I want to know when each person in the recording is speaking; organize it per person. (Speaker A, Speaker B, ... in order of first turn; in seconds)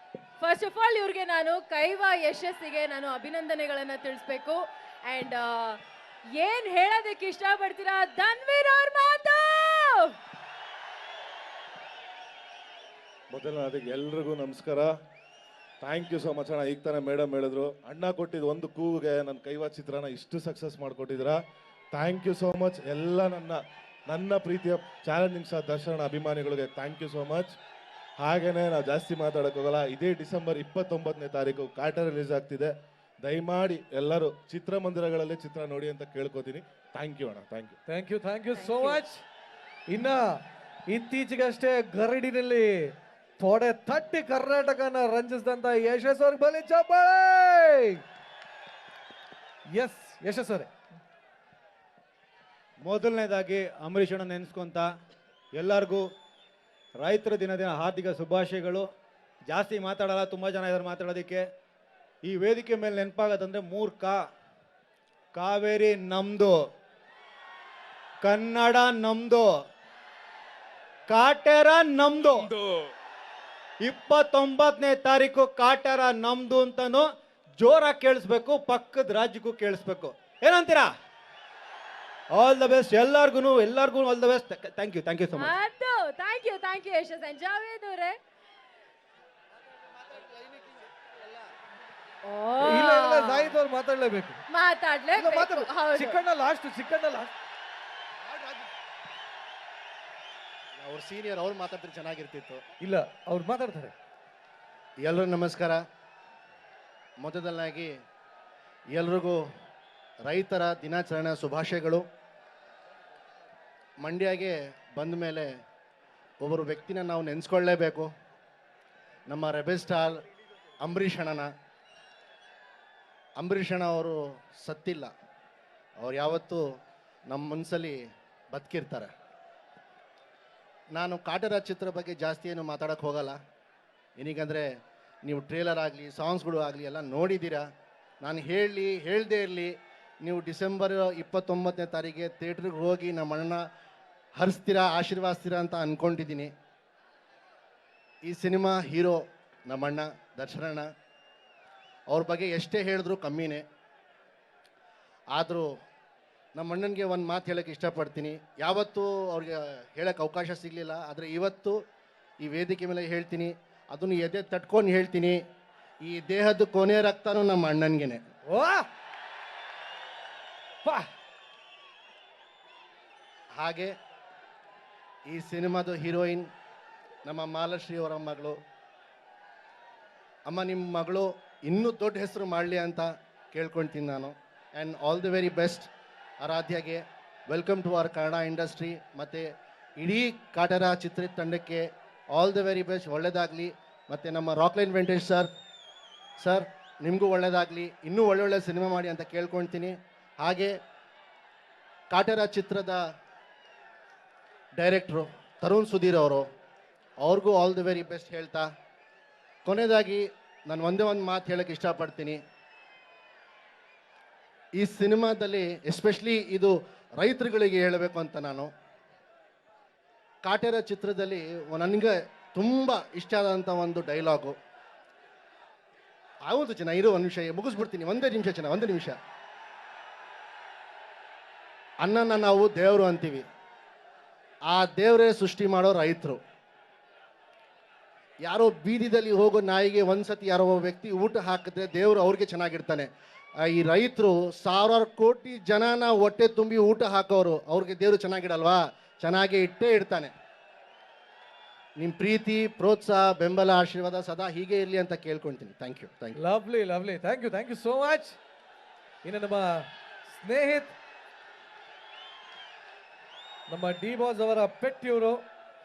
Speaker A: 0.4-5.8, 6.3-10.1, 38.5-39.0, 85.3-88.2, 92.2-93.5, 94.5-96.2
Speaker B: 13.3-14.9, 15.8-21.4, 21.9-27.5, 28.2-37.8
Speaker C: 37.9-39.2, 39.9-48.0, 49.7-50.7, 92.6-94.4, 95.2-97.3, 102.8-103.9, 168.5-168.9, 170.8-171.1, 256.4-258.4, 259.2-260.9, 263.7-265.4
Speaker D: 52.8-54.9, 55.5-56.0, 57.0-58.9, 59.5-61.5, 62.2-64.2, 65.3-66.6, 68.2-69.5, 71.1-72.5, 73.8-77.0, 77.6-80.9, 82.3-85.5
Speaker E: 98.2-98.7, 100.8-102.6, 105.0-105.8, 107.2-107.9, 108.9-109.4, 110.2-112.0, 114.0-115.5, 116.4-118.1, 119.3-120.2, 120.8-121.5, 123.4-125.1, 126.0-126.6, 127.3-128.0, 128.5-129.1, 130.9-133.4, 134.2-134.7, 135.2-137.7, 138.2-143.6, 144.4-146.5, 148.2-150.9, 152.1-153.6, 155.3-155.7, 156.6-161.8, 162.4-165.4, 166.0-168.2, 173.6-173.9, 175.3-176.5, 177.2-178.6, 180.5-185.9, 186.4-189.5, 190.0-195.5, 196.4-200.7, 202.1-203.0, 204.8-206.4, 207.2-208.7, 209.7-212.4, 214.8-218.7, 220.4-224.6, 226.5-229.2, 232.0-233.4, 234.7-236.4, 238.4-243.1, 243.6-250.3, 252.0-256.4